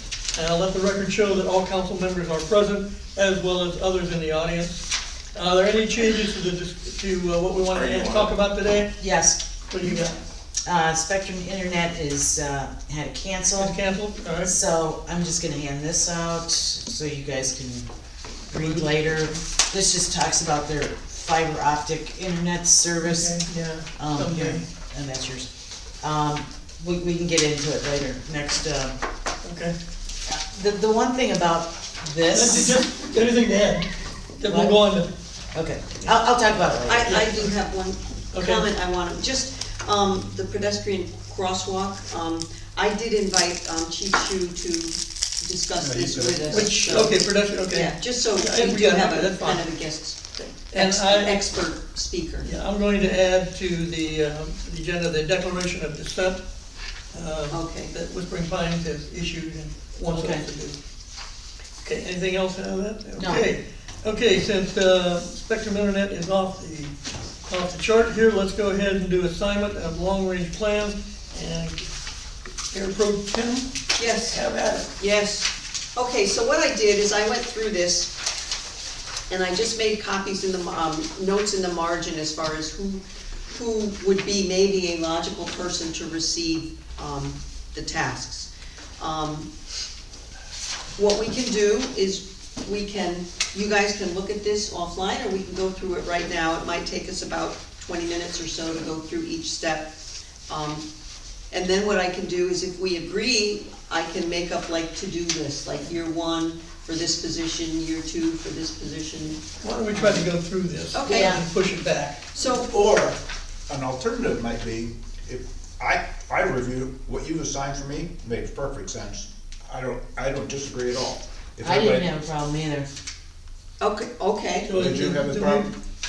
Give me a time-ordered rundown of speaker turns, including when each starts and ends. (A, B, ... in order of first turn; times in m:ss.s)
0:00.3-0:08.9 A
0:09.0-0:09.4 B
0:09.7-0:10.2 A
0:10.6-0:13.8 B
0:13.6-0:14.5 A
0:14.4-0:17.9 B
0:18.5-0:23.4 B
0:18.5-0:19.4 A
0:23.0-0:24.6 A
0:24.0-0:29.0 B
0:29.4-0:29.7 A
0:30.2-0:32.8 B
0:32.3-0:35.1 A
0:34.4-0:34.8 B
0:35.5-0:37.3 B
0:36.8-0:47.2 C
0:37.1-0:37.5 A
0:38.3-0:38.6 A
0:45.8-0:47.0 D
0:46.5-0:49.7 A
0:47.7-0:50.2 C
0:50.3-0:51.4 A
0:50.7-0:52.5 C
0:52.4-0:56.4 A
0:57.1-1:00.8 A
0:57.5-0:57.9 C
1:00.1-1:00.4 B
1:01.8-1:06.9 A
1:03.2-1:03.4 B
1:07.5-1:11.8 A
1:12.7-1:13.7 A
1:14.0-1:14.4 C
1:14.3-1:14.9 A
1:15.0-1:18.1 C
1:19.3-1:29.5 C
1:31.0-1:39.9 C
1:40.5-1:40.8 C
1:41.5-1:50.3 C
1:49.6-1:52.2 A
1:50.9-1:51.4 C
1:51.1-1:51.4 B
1:52.3-1:52.7 C
1:52.5-2:02.1 D
2:01.6-2:02.9 B
2:03.8-2:04.7 C
2:04.6-2:05.7 A
2:04.7-2:05.7 D